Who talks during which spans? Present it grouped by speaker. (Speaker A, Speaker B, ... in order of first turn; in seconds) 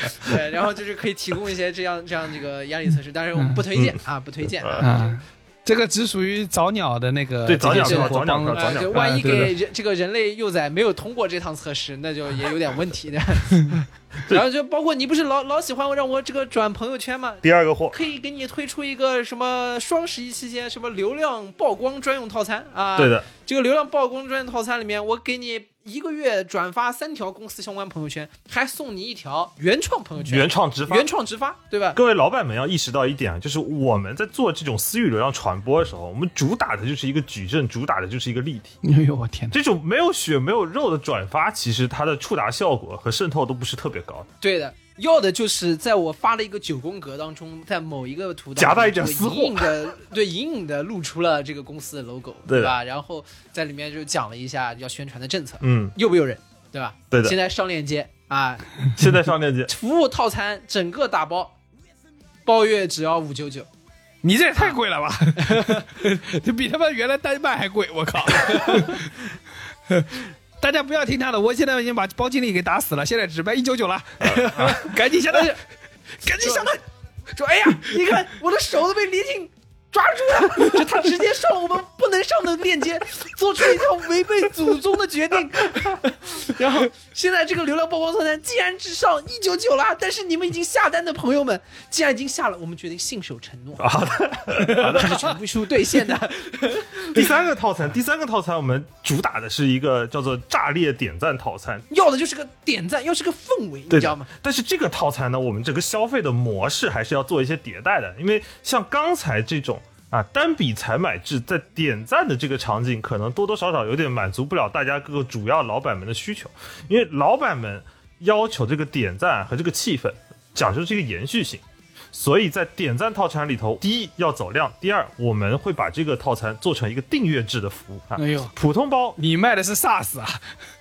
Speaker A: 0.1-5.1, 7.7-32.0, 44.4-58.9, 59.7-61.5, 62.5-63.7, 65.5-65.8, 76.4-76.8, 77.3-97.2, 101.9-104.3
Speaker B: 3.4-3.6, 4.8-9.5, 38.8-39.6, 64.2-69.1, 70.6-75.6, 76.2-76.8, 128.2-128.5, 129.2-130.4
Speaker C: 3.7-4.0, 7.5-9.4, 17.4-18.0, 23.0-23.3, 30.2-31.1, 31.9-38.8, 39.5-44.3, 48.6-49.9, 52.5-52.8, 55.6-56.0, 57.1-57.4, 59.0-59.7, 74.3-74.7, 93.8-95.2, 97.0-101.9, 103.9-129.2